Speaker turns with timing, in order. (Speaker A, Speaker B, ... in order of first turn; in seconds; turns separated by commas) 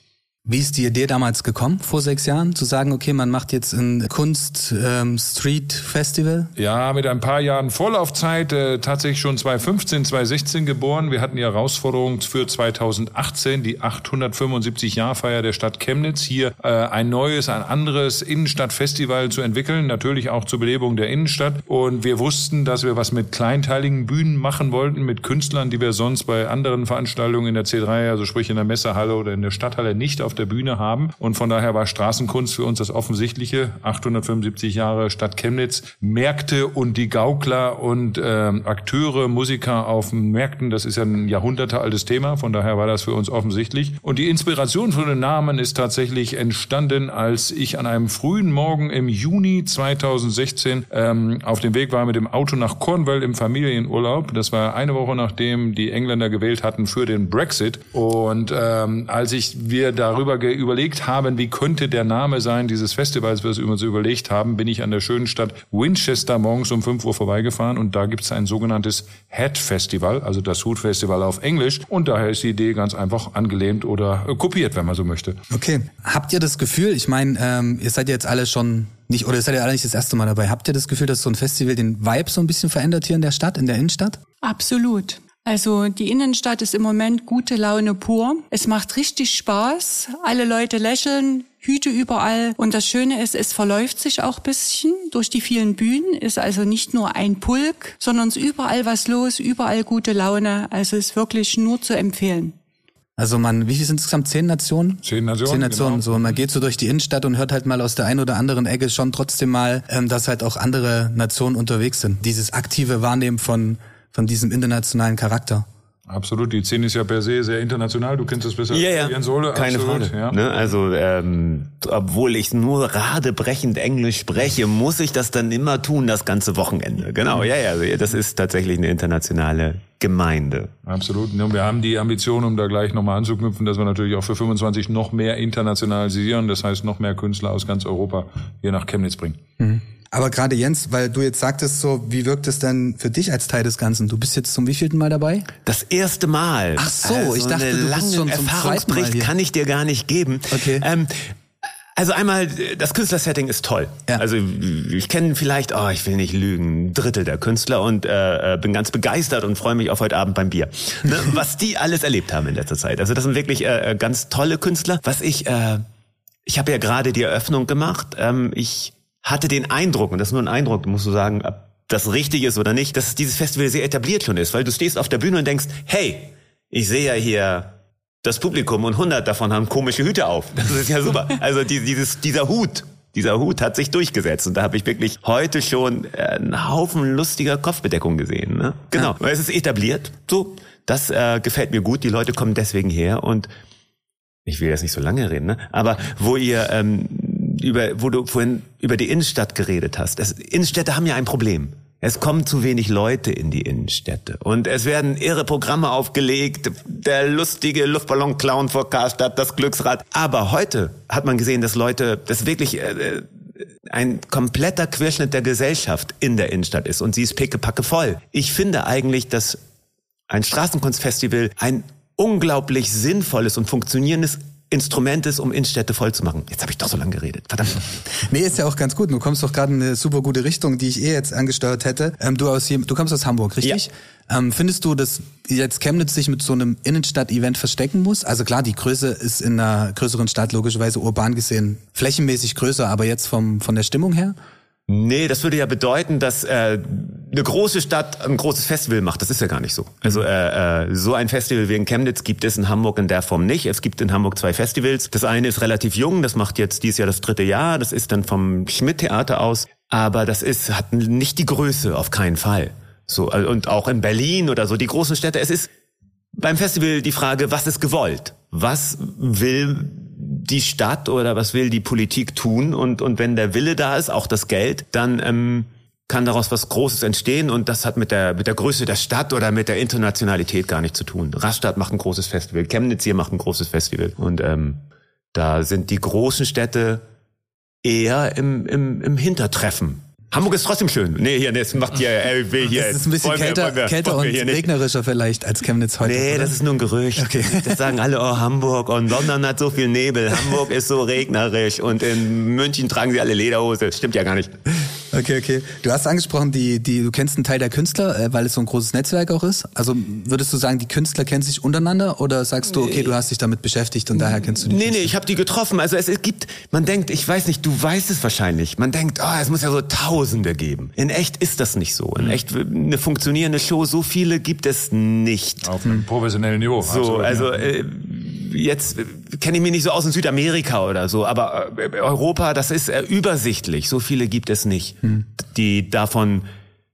Speaker A: 0.5-6.5, Speaker B: 6.6-75.4, Speaker A: 75.5-84.2, Speaker C: 84.4-102.5, Speaker A: 103.2-115.7, Speaker B: 105.0-106.4, Speaker B: 116.1-120.4, Speaker D: 118.7-130.7, Speaker B: 130.8-139.4, Speaker A: 139.6-145.5, Speaker D: 145.6-151.2, Speaker A: 146.8-149.3, Speaker A: 150.5-150.8, Speaker D: 151.9-165.8, Speaker D: 166.4-193.5, Speaker D: 194.4-213.3, Speaker D: 213.8-219.6, Speaker D: 220.3-228.0, Speaker A: 228.3-244.3, Speaker D: 244.9-265.7, Speaker D: 266.4-287.0, Speaker D: 287.8-294.7, Speaker A: 292.7-296.6, Speaker D: 296.0-304.6, Speaker A: 297.1-297.9, Speaker A: 305.1-315.1, Speaker D: 312.8-313.1, Speaker D: 314.2-325.7, Speaker B: 325.6-327.7, Speaker D: 326.8-336.4